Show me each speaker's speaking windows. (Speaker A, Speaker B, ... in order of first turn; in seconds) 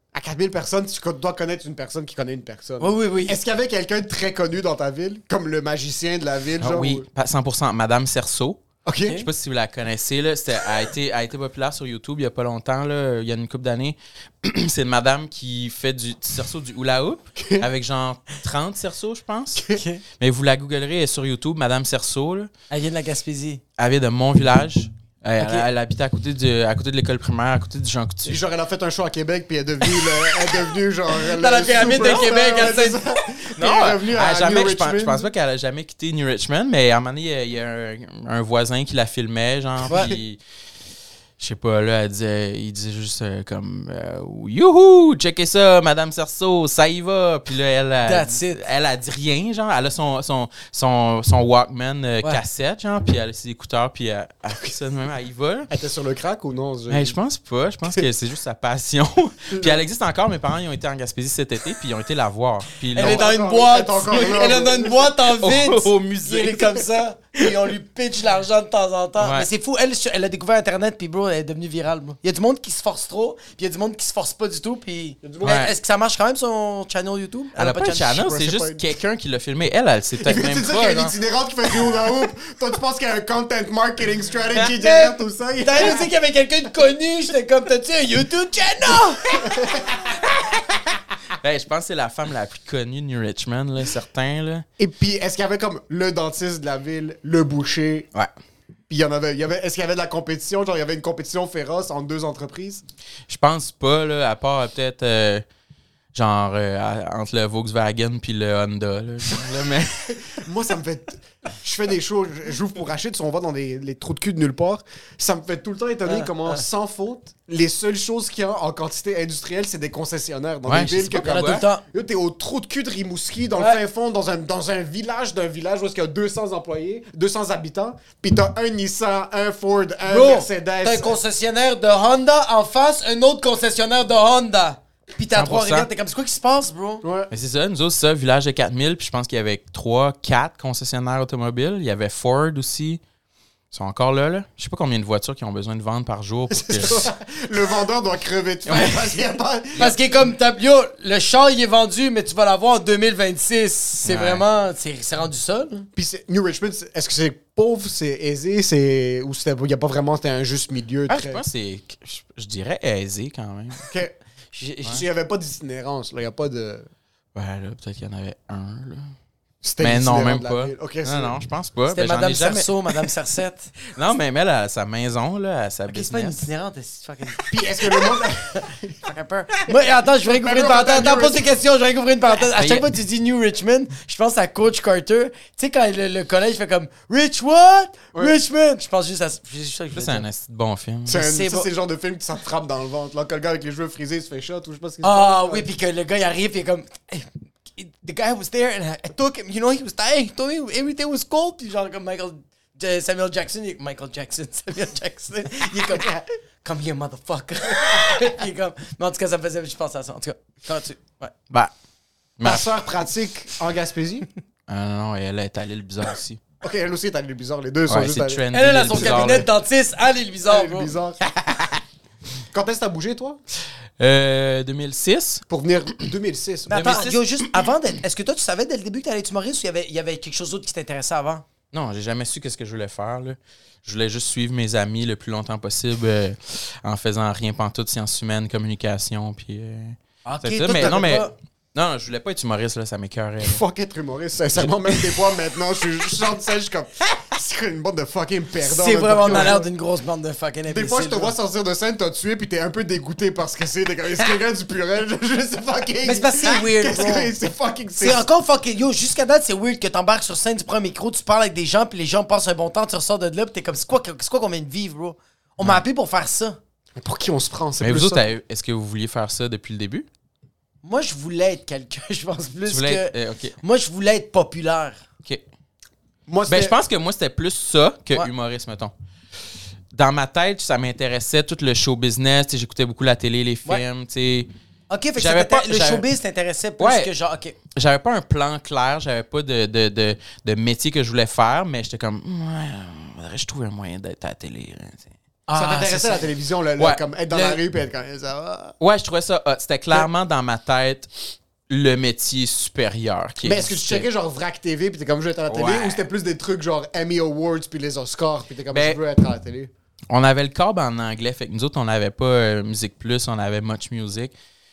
Speaker A: 0.1-7.0, 8.8-9.2, 17.4-17.7, 28.2-35.3, 39.9-40.2, 55.7-57.2, 59.5-59.8, 63.0-65.1, 75.2-75.6, 78.1-78.9, 80.2-86.0, 89.4-90.2, 94.8-98.1, 98.9-102.8, 110.3-131.2, 137.0-137.3, 146.5-149.9, 155.9-161.4, 163.9-164.1, 164.8-166.9, 169.6-171.3, 177.5-178.9, 180.2-181.5, 191.1-195.7, 212.4-214.2, 216.6-219.4, 220.4-221.2, 222.5-223.4, 225.5-227.1, 243.4-249.7, 250.7-258.2, 266.9-268.2, 276.3-276.8, 295.5-298.7, 303.4-309.7
Speaker B: 2.8-3.4, 19.7-20.0, 22.7-23.6, 25.4-25.7, 31.2-33.0, 39.9-40.1, 48.0-48.6, 62.9-78.2, 84.8-89.6, 116.0-116.6, 121.2-121.8, 130.1-137.0, 149.8-155.9, 164.5-165.0, 171.9-173.7, 175.9-177.8, 178.5-190.2, 191.1-191.7, 195.0-211.3, 218.5-220.9, 226.7-231.4, 240.2-241.3, 248.6-251.3, 256.0-257.3, 258.0-266.6, 270.8-275.0, 284.9-287.6, 295.5-296.3, 297.3-297.6
Speaker C: 6.6-22.5, 23.8-28.4, 33.6-40.4, 41.4-55.7, 56.9-63.3, 65.3-67.5, 69.2-69.5, 75.4-75.7, 77.5-81.1, 91.3-94.6, 103.3-105.4, 106.1-110.4, 120.7-121.7, 135.3-135.9, 137.3-143.0, 143.7-147.1, 148.7-149.1, 154.0-154.4, 161.1-163.9, 167.3-169.1, 169.8-173.1, 173.9-176.4, 182.5-182.9, 189.9-191.3, 212.4-212.7, 214.7-216.4, 217.9-219.5, 224.0-225.4, 226.7-227.7, 231.7-243.6, 244.6-245.1, 267.8-270.1, 272.7-273.6, 276.5-278.9, 279.9-284.5, 285.2-286.0, 286.8-287.1, 287.7-295.1, 298.8-301.1, 301.7-304.1, 305.5-306.1, 308.7-309.0, 310.1-314.3